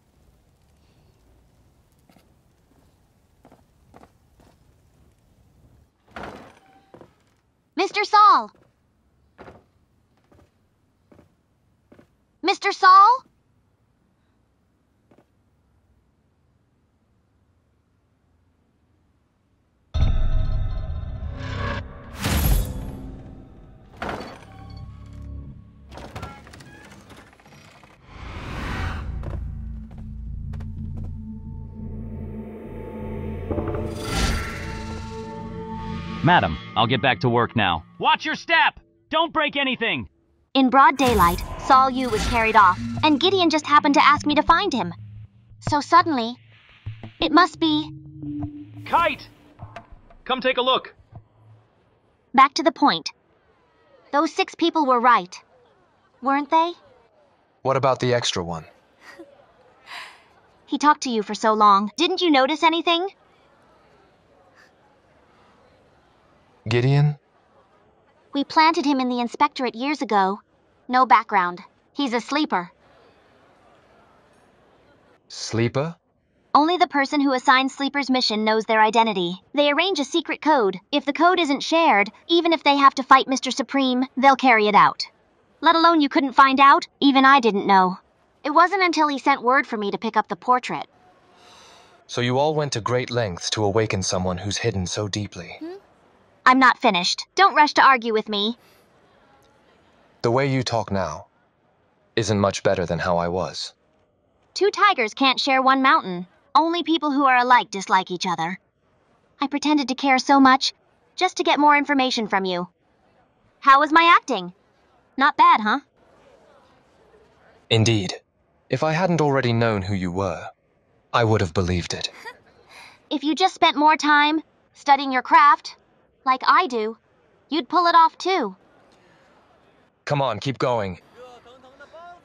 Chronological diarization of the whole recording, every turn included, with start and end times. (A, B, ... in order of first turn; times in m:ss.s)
0:07.8-0:08.5 A
0:12.4-0:13.2 A
0:36.2-0:40.1 B
0:40.6-0:45.0 A
0:45.6-0:46.4 A
0:47.2-0:47.9 A
0:48.8-0:49.3 B
0:50.2-0:50.9 B
0:52.3-0:53.1 A
0:54.1-0:55.4 A
0:56.2-0:56.8 A
0:57.6-0:58.7 C
1:00.7-1:03.1 A
1:06.7-1:07.2 C
1:08.3-1:12.7 A
1:15.3-1:16.0 C
1:16.5-1:25.1 A
1:25.6-1:30.9 A
1:32.1-1:35.6 C
1:36.4-1:38.6 A
1:40.2-1:41.3 C
1:42.2-1:43.7 C
1:44.5-1:48.6 A
1:49.4-1:52.7 A
1:53.6-1:54.5 A
1:55.2-1:55.8 A
1:57.7-2:00.5 C
2:01.1-2:02.1 C
2:03.1-2:08.6 A
2:10.1-2:11.0 C